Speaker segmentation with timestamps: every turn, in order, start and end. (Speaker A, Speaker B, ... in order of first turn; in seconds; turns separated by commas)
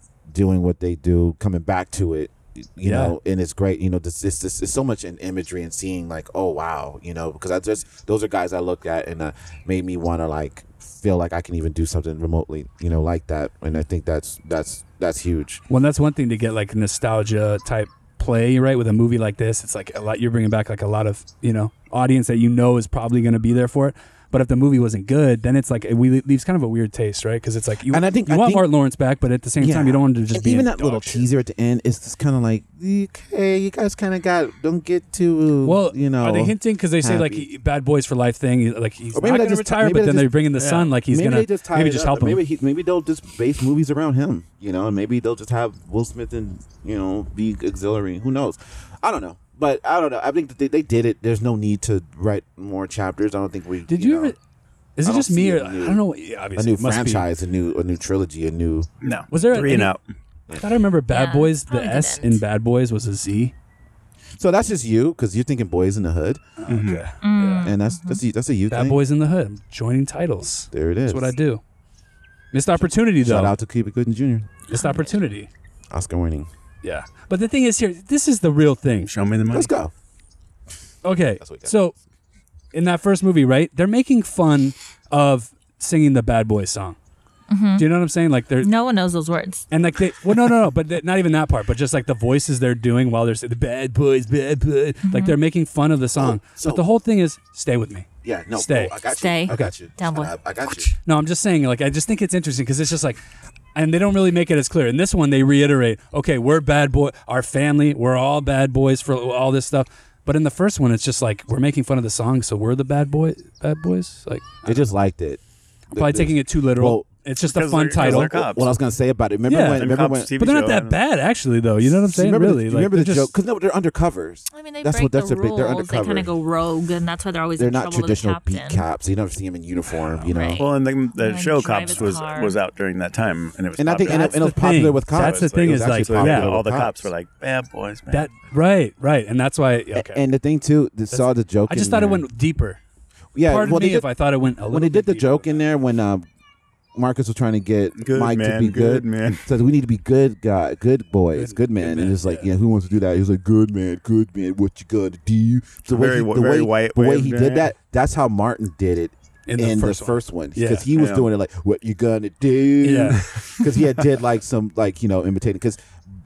Speaker A: 0.3-15.6, Speaker B: 2.8-3.1, Speaker B: 15.7-31.3, Speaker A: 27.9-28.7, Speaker A: 29.6-37.5, Speaker B: 35.6-42.4, Speaker A: 39.1-54.4, Speaker B: 53.9-54.4, Speaker B: 55.0-57.2, Speaker A: 55.0-56.0, Speaker A: 56.5-58.9, Speaker C: 59.0-60.0, Speaker B: 59.3-59.9, Speaker B: 60.5-63.5, Speaker D: 61.1-62.4, Speaker A: 64.4-66.4, Speaker B: 66.6-67.7, Speaker C: 66.7-67.1, Speaker D: 67.2-68.2, Speaker A: 67.4-69.0, Speaker B: 68.7-71.6, Speaker A: 70.7-71.3, Speaker B: 72.5-73.5, Speaker A: 72.7-74.5, Speaker B: 74.7-75.5, Speaker D: 74.8-75.1, Speaker A: 75.9-76.5, Speaker B: 76.8-79.1, Speaker C: 79.0-79.7, Speaker A: 79.5-79.9, Speaker B: 81.0-82.0, Speaker A: 81.4-81.7, Speaker B: 82.7-87.0, Speaker D: 87.5-87.9, Speaker B: 87.8-88.7, Speaker D: 88.6-89.7, Speaker B: 89.7-99.0, Speaker D: 95.0-95.3, Speaker A: 96.2-96.8, Speaker A: 98.2-100.9, Speaker D: 99.1-100.3, Speaker B: 101.0-103.2, Speaker B: 103.7-114.9, Speaker A: 114.6-115.4, Speaker B: 115.9-118.4, Speaker A: 115.9-117.1, Speaker C: 117.4-118.7, Speaker A: 117.9-120.3, Speaker B: 119.5-123.3, Speaker C: 119.6-121.0, Speaker A: 121.9-126.3, Speaker D: 124.5-128.8, Speaker A: 127.6-130.6, Speaker D: 130.3-132.6, Speaker C: 130.6-138.3, Speaker A: 133.8-137.1, Speaker B: 134.0-136.5, Speaker B: 138.1-140.2, Speaker A: 139.9-142.2, Speaker B: 141.1-142.8, Speaker A: 143.3-144.1, Speaker B: 143.4-145.4, Speaker A: 144.7-146.2, Speaker A: 146.9-166.0, Speaker C: 148.0-149.4, Speaker B: 151.3-152.4, Speaker C: 155.9-157.7, Speaker B: 159.5-160.9, Speaker C: 160.9-161.3, Speaker B: 162.8-163.4